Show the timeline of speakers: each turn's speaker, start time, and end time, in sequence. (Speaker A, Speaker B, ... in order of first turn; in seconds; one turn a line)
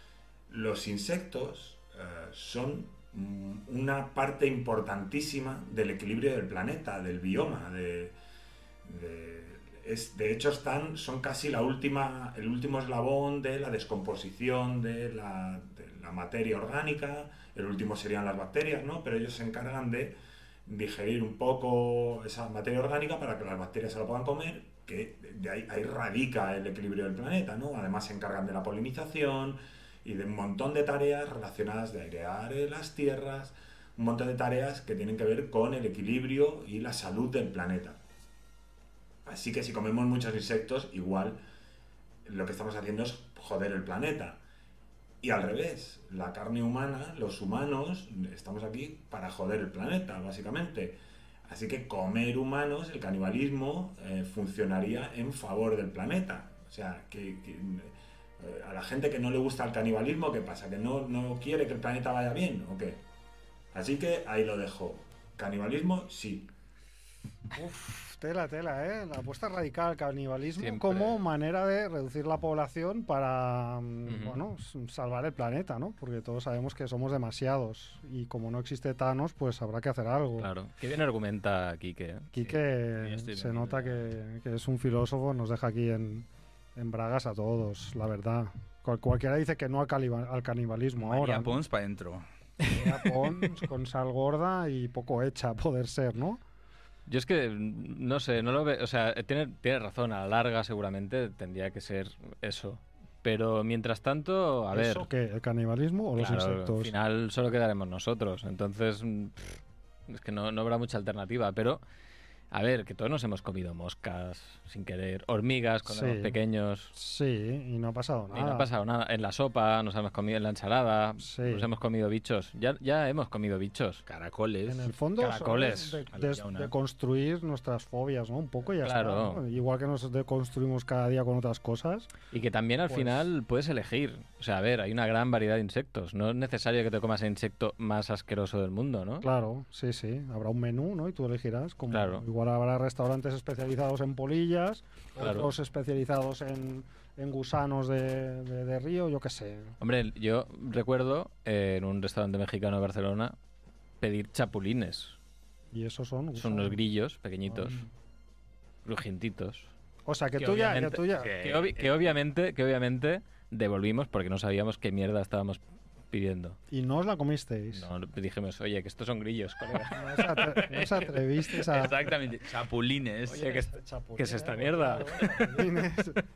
Speaker A: 0.5-8.2
Speaker A: 8.8-38.0
Speaker A: 39.2-41.4
Speaker A: 42.2-44.4
Speaker A: 45.2-63.0
Speaker A: 63.7-66.5
Speaker B: 67.5-80.5
Speaker C: 70.6-71.2
Speaker C: 74.1-74.4
Speaker C: 80.4-82.3
Speaker B: 82.3-91.6
Speaker D: 82.5-84.0
Speaker D: 91.0-92.3
Speaker B: 92.7-96.4
Speaker C: 97.1-105.1
Speaker B: 104.7-106.9
Speaker C: 106.2-111.8
Speaker C: 112.5-116.9
Speaker B: 115.9-116.4
Speaker B: 116.9-118.7
Speaker C: 118.3-124.0
Speaker B: 121.2-121.7
Speaker D: 124.1-126.7
Speaker B: 124.7-132.1
Speaker C: 125.3-125.9
Speaker C: 128.8-129.4
Speaker C: 132.3-139.3
Speaker B: 132.9-133.3
Speaker B: 139.2-149.8
Speaker C: 141.9-142.2
Speaker C: 145.2-145.5
Speaker C: 149.8-153.4
Speaker C: 154.0-155.2
Speaker B: 155.7-156.8
Speaker C: 156.4-157.8
Speaker B: 157.5-157.9
Speaker C: 158.8-159.7
Speaker B: 160.1-161.3
Speaker C: 160.4-166.6
Speaker D: 161.2-162.1
Speaker B: 166.7-167.9
Speaker C: 167.7-171.2
Speaker B: 169.9-172.1
Speaker D: 171.7-173.5
Speaker C: 173.3-175.8
Speaker B: 173.3-176.2